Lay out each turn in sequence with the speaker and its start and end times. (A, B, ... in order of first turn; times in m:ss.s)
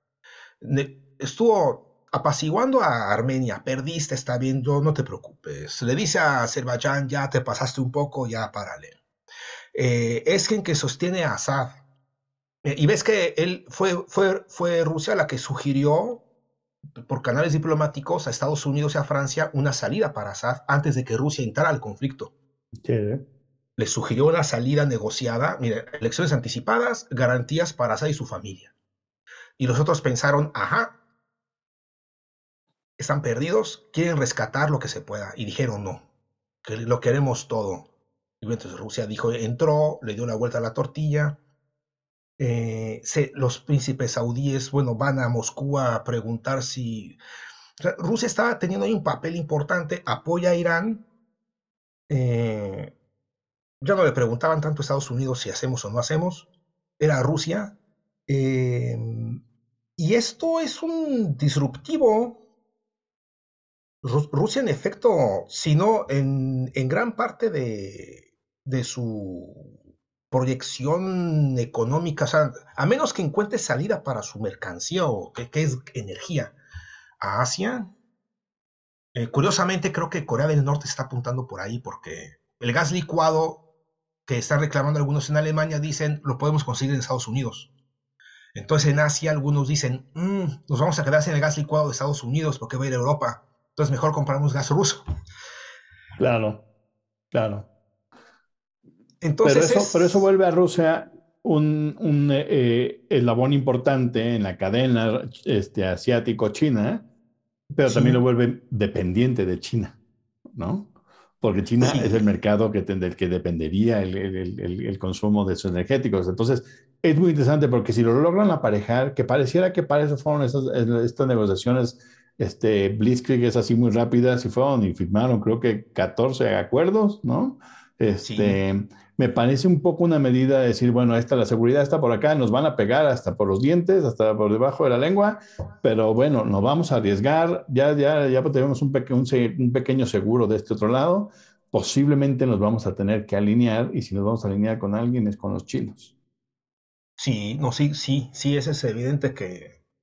0:00.6-0:09.0 A
0:09.7-0:11.8 A
0:12.6-0:16.2 A
0:17.0-0:22.3 A
0:22.8-0:23.2 B
0:23.8-0:28.7 A
0:29.6-0:31.0 A
0:33.0-0:36.1 A
0:36.6-0:37.9 A
0:38.4-0:41.4 A
0:42.4-0:47.2 A
0:47.8-0:51.0 A
0:52.1-0:52.9 A
0:53.8-0:57.8 A
0:58.3-0:59.4 A
1:00.0-1:02.4 A
1:04.0-1:09.8 A
1:10.3-1:16.5 A
1:17.2-1:17.9 A
1:19.1-1:23.6 A
1:24.2-1:27.7 A
1:28.5-1:35.0 A
1:36.2-1:36.6 B
1:37.3-1:37.7 B
1:39.2-1:40.2 A
1:39.4-1:47.0 B
1:47.7-1:50.0 B
1:47.8-1:48.2 A
1:50.5-2:26.1 B
1:51.8-1:52.2 A
2:08.2-2:08.6 A
2:27.2-2:29.8 A